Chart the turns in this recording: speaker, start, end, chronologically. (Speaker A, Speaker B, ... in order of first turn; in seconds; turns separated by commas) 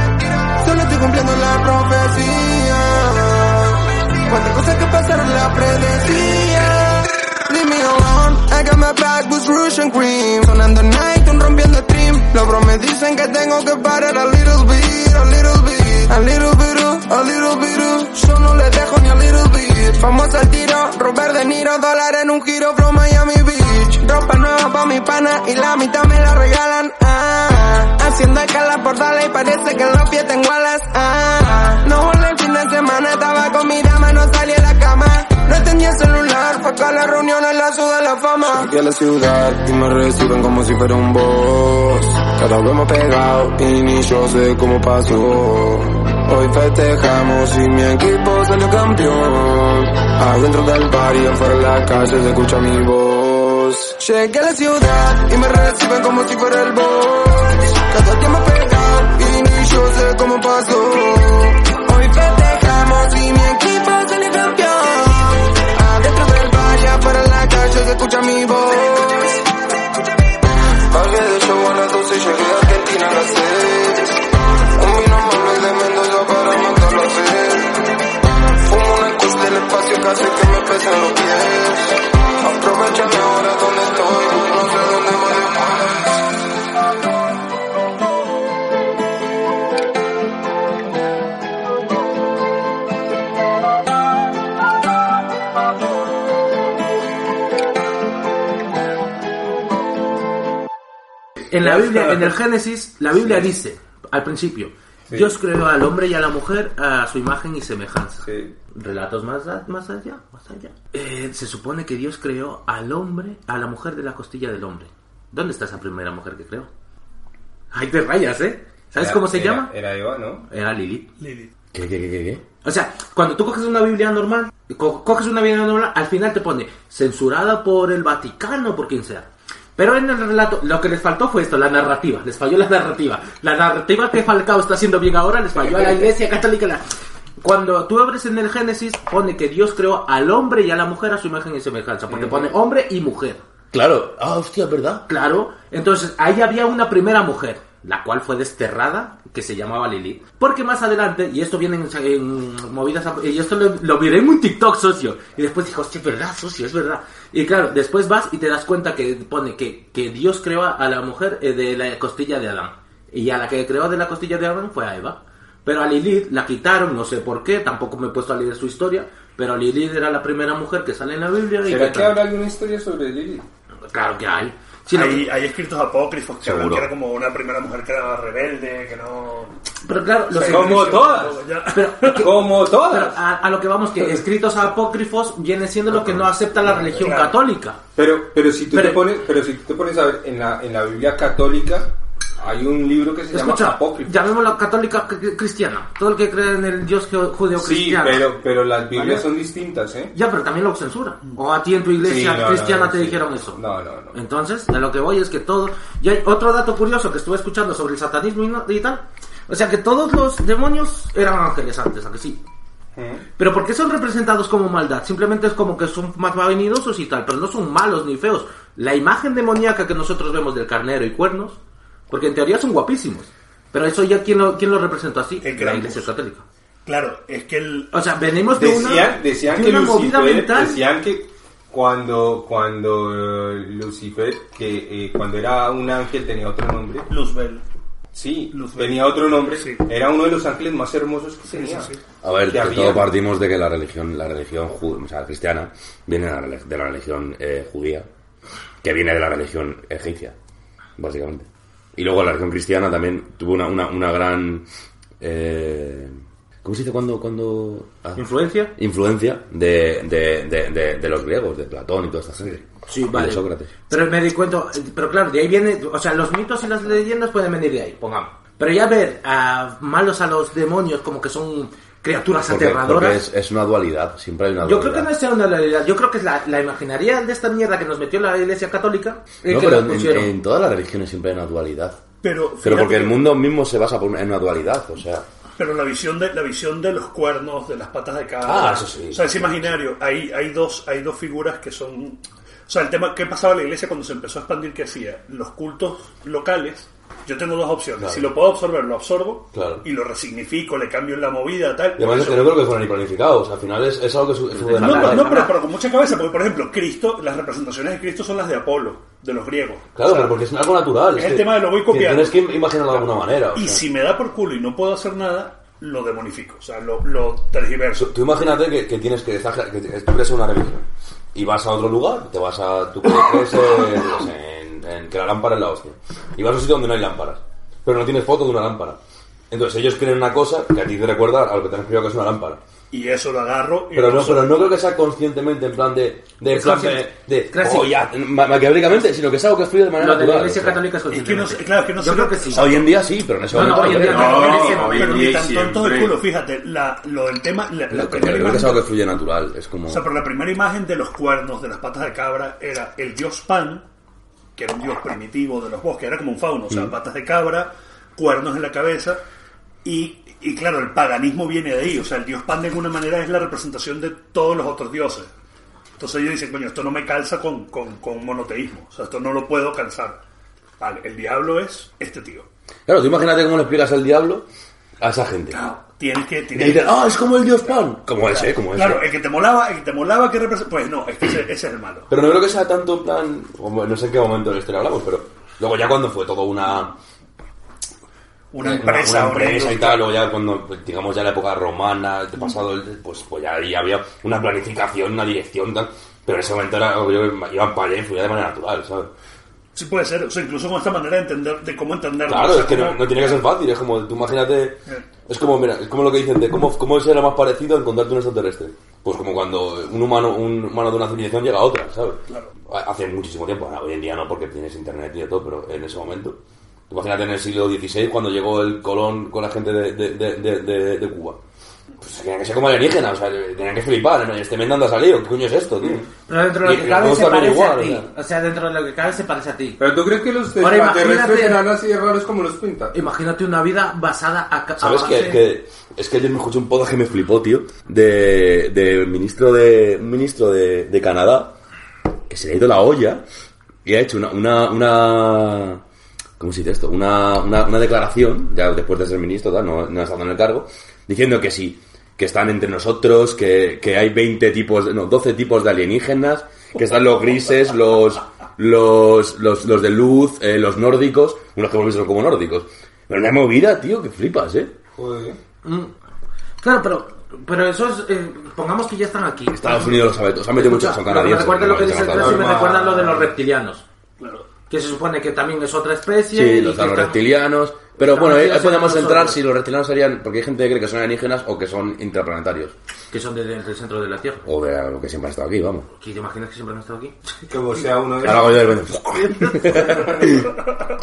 Speaker A: 0.4-69.5, Speaker A: 70.9-78.0, Speaker A: 78.5-86.1, Speaker B: 101.5-116.7, Speaker C: 101.7-102.2, Speaker C: 108.2-108.5, Speaker B: 117.7-119.7, Speaker C: 119.0-120.5, Speaker B: 120.5-121.1, Speaker D: 121.2-121.5, Speaker E: 121.7-122.4, Speaker B: 122.6-136.8, Speaker B: 137.4-143.4, Speaker C: 142.1-142.5, Speaker E: 143.7-145.1, Speaker B: 145.1-172.2, Speaker C: 171.7-173.4, Speaker B: 173.9-175.3, Speaker D: 174.9-179.6, Speaker E: 176.4-176.9, Speaker B: 179.8-187.8, Speaker D: 180.3-182.3, Speaker C: 180.4-181.4, Speaker C: 182.2-183.2, Speaker D: 187.0-187.4, Speaker C: 188.0-194.2, Speaker B: 188.7-189.0, Speaker B: 193.3-198.2, Speaker C: 197.6-200.1, Speaker B: 198.9-199.3, Speaker B: 200.1-203.6, Speaker C: 202.0-204.2, Speaker B: 204.1-212.4, Speaker C: 213.0-213.2, Speaker B: 213.4-221.6, Speaker B: 222.1-226.4, Speaker D: 225.4-226.1, Speaker D: 226.8-227.9, Speaker B: 227.9-230.8, Speaker C: 228.6-237.1, Speaker D: 237.1-237.6, Speaker C: 238.1-241.9, Speaker D: 238.5-239.8, Speaker D: 241.5-242.0, Speaker E: 242.2-248.1, Speaker C: 242.5-243.1, Speaker E: 248.8-250.3, Speaker E: 251.0-254.7, Speaker E: 255.2-256.1, Speaker E: 256.6-258.2, Speaker B: 258.2-258.7, Speaker E: 258.8-263.7, Speaker B: 262.9-273.2, Speaker E: 272.5-275.1, Speaker B: 274.6-280.3, Speaker E: 279.4-282.0, Speaker D: 282.2-283.3, Speaker E: 282.6-285.2, Speaker D: 285.6-302.6, Speaker E: 288.4-289.8, Speaker E: 298.0-298.3, Speaker E: 299.5-299.8, Speaker E: 302.0-305.4, Speaker B: 304.6-305.5, Speaker D: 304.8-310.3, Speaker E: 310.0-313.9, Speaker D: 311.1-318.1, Speaker E: 318.0-329.0, Speaker E: 329.5-332.6, Speaker D: 332.9-334.7, Speaker E: 333.9-340.8, Speaker B: 336.5-337.9, Speaker B: 340.0-342.7, Speaker D: 341.1-342.9, Speaker E: 342.5-344.4, Speaker B: 343.5-345.3, Speaker C: 343.9-346.2, Speaker D: 343.9-348.9, Speaker E: 347.9-350.1, Speaker D: 349.9-353.9, Speaker D: 354.6-359.2, Speaker D: 359.8-365.3, Speaker D: 366.0-370.2, Speaker D: 370.8-372.5, Speaker E: 372.9-374.5, Speaker E: 375.0-375.6, Speaker D: 375.5-377.1, Speaker E: 376.5-379.1, Speaker D: 378.3-382.1, Speaker E: 382.1-386.9, Speaker D: 388.5-390.1, Speaker E: 388.6-399.1, Speaker D: 399.8-403.4, Speaker E: 402.3-416.4, Speaker E: 416.9-421.4, Speaker E: 422.0-426.1, Speaker B: 426.3-429.8, Speaker E: 426.6-428.1, Speaker C: 429.8-432.9, Speaker B: 430.6-431.6, Speaker B: 432.9-435.4, Speaker E: 434.8-441.5, Speaker E: 442.3-443.2, Speaker E: 443.9-445.8, Speaker E: 446.4-464.7, Speaker C: 465.0-465.4, Speaker B: 465.6-465.9, Speaker B: 466.6-473.8, Speaker E: 469.5-472.6, Speaker C: 472.1-473.3, Speaker D: 474.2-474.5, Speaker B: 474.7-477.2, Speaker E: 476.3-482.7, Speaker B: 478.0-479.4, Speaker B: 483.1-484.4, Speaker E: 484.4-485.9, Speaker B: 486.0-487.4, Speaker C: 487.5-488.6, Speaker E: 488.2-490.5, Speaker B: 489.0-490.0, Speaker C: 489.6-490.4